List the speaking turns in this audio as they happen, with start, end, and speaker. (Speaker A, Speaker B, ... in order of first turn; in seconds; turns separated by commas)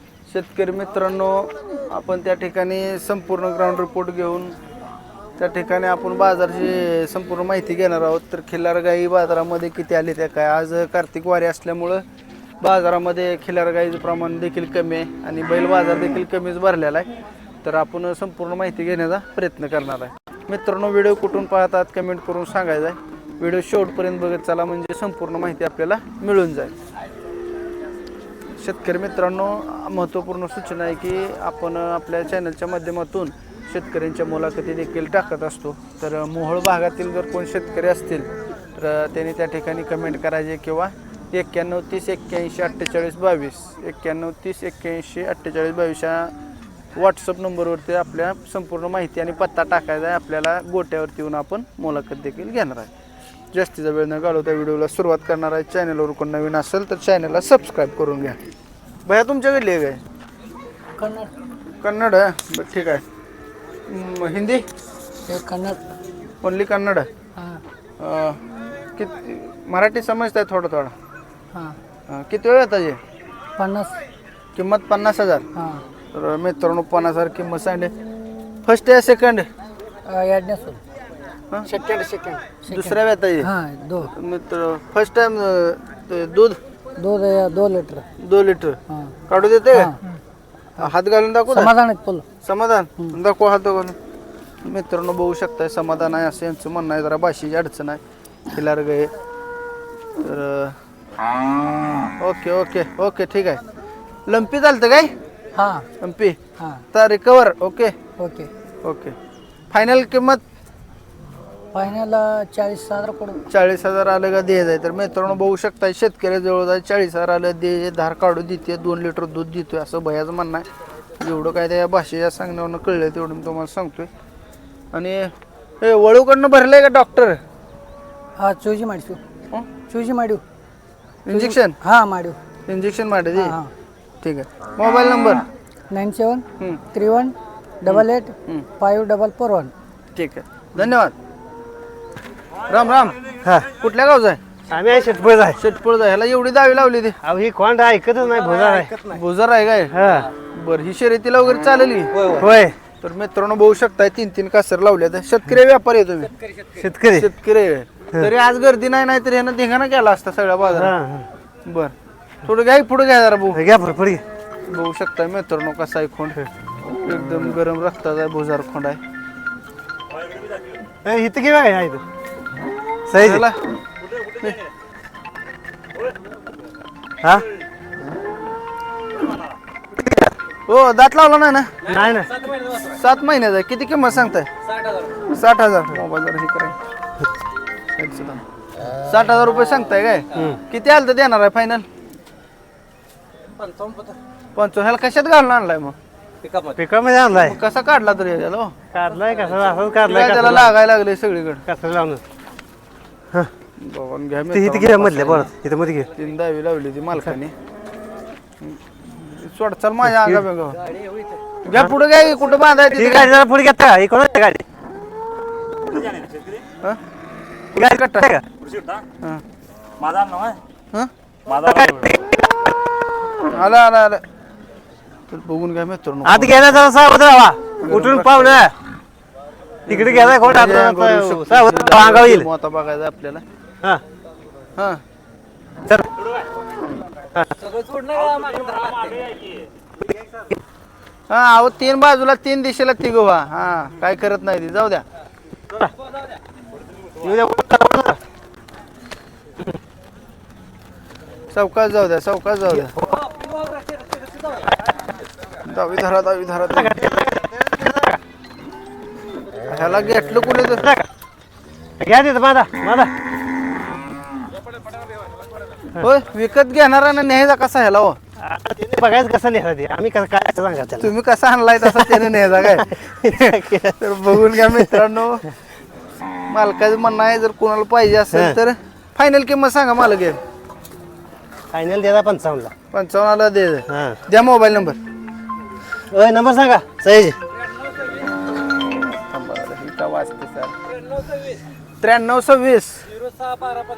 Speaker A: 0.3-4.6, Speaker A: 5.4-12.0, Speaker A: 12.6-17.1, Speaker A: 17.6-26.7, Speaker A: 28.6-46.3, Speaker A: 46.9-52.9, Speaker A: 53.5-58.4, Speaker A: 59.0-60.0, Speaker B: 61.0-61.3, Speaker A: 61.8-63.0, Speaker A: 63.9-64.7, Speaker B: 65.3-65.8, Speaker A: 66.4-67.1, Speaker B: 67.3-67.6, Speaker A: 68.0-68.4, Speaker A: 69.0-70.9, Speaker A: 72.1-73.0, Speaker B: 73.6-74.0, Speaker A: 74.5-75.5, Speaker B: 75.5-75.8, Speaker A: 76.1-77.9, Speaker A: 78.6-79.5, Speaker B: 80.0-80.8, Speaker B: 81.6-84.1, Speaker A: 82.7-83.5, Speaker A: 84.1-86.6, Speaker B: 87.0-88.0, Speaker A: 88.2-89.9, Speaker B: 88.9-89.1, Speaker B: 89.7-90.0, Speaker A: 90.8-91.7, Speaker B: 91.5-92.2, Speaker A: 92.4-94.0, Speaker A: 94.6-99.1, Speaker A: 100.2-100.8, Speaker A: 102.2-103.6, Speaker A: 104.3-105.1, Speaker B: 105.5-105.9, Speaker A: 106.0-106.4, Speaker A: 106.9-107.9, Speaker B: 108.2-108.5, Speaker A: 108.8-109.1, Speaker A: 109.7-110.4, Speaker B: 111.7-113.4, Speaker A: 113.5-120.7, Speaker A: 121.2-124.1, Speaker A: 124.9-127.4, Speaker B: 128.4-129.2, Speaker B: 129.9-130.4, Speaker A: 131.3-131.8, Speaker B: 131.3-132.4, Speaker A: 132.7-133.6, Speaker B: 133.3-133.7, Speaker A: 134.2-135.4, Speaker B: 135.9-139.7, Speaker A: 137.9-138.7, Speaker A: 140.1-141.1, Speaker A: 142.7-143.2, Speaker C: 143.4-143.7, Speaker A: 143.7-144.4, Speaker C: 144.7-145.6, Speaker A: 145.6-147.2, Speaker C: 147.2-149.1, Speaker A: 149.1-149.9, Speaker C: 149.9-150.3, Speaker A: 150.5-152.3, Speaker C: 152.2-152.8, Speaker A: 153.0-156.3, Speaker C: 156.7-157.3, Speaker A: 157.1-160.9, Speaker C: 160.7-161.3, Speaker A: 161.7-161.9, Speaker A: 162.4-163.6, Speaker C: 163.5-164.2, Speaker A: 164.7-166.4, Speaker A: 167.0-169.0, Speaker C: 171.0-172.0, Speaker C: 173.1-173.4, Speaker A: 173.1-173.6, Speaker A: 180.7-181.8, Speaker C: 181.8-182.4, Speaker A: 182.7-184.5, Speaker A: 185.3-186.8, Speaker A: 187.9-188.4, Speaker A: 189.0-191.8, Speaker A: 194.6-195.9, Speaker C: 196.7-197.6, Speaker A: 197.3-198.7, Speaker C: 198.9-200.7, Speaker A: 200.0-201.6, Speaker C: 201.7-202.2, Speaker A: 203.8-205.5, Speaker C: 204.5-206.1, Speaker A: 206.1-207.5, Speaker A: 208.6-210.8, Speaker A: 211.6-213.3, Speaker C: 212.9-214.6, Speaker A: 217.7-218.3, Speaker C: 217.8-218.4, Speaker C: 220.1-220.6, Speaker C: 221.5-222.3, Speaker A: 223.4-224.2, Speaker A: 225.3-226.8, Speaker C: 226.2-228.7, Speaker A: 227.8-228.6, Speaker A: 229.9-233.4, Speaker C: 229.9-232.5, Speaker C: 237.3-237.8, Speaker A: 241.3-245.0, Speaker C: 247.2-248.2, Speaker A: 251.5-252.9, Speaker A: 255.6-257.1, Speaker C: 256.7-258.2, Speaker A: 259.7-261.0, Speaker C: 262.0-263.1, Speaker A: 265.9-268.2, Speaker C: 268.4-271.1, Speaker A: 271.0-275.5, Speaker C: 271.8-272.3, Speaker C: 272.9-274.9, Speaker A: 276.5-280.4, Speaker C: 278.3-278.6, Speaker C: 281.7-282.7, Speaker A: 282.9-285.0, Speaker C: 283.9-284.2, Speaker C: 286.1-287.4, Speaker A: 288.7-290.7, Speaker A: 292.0-293.1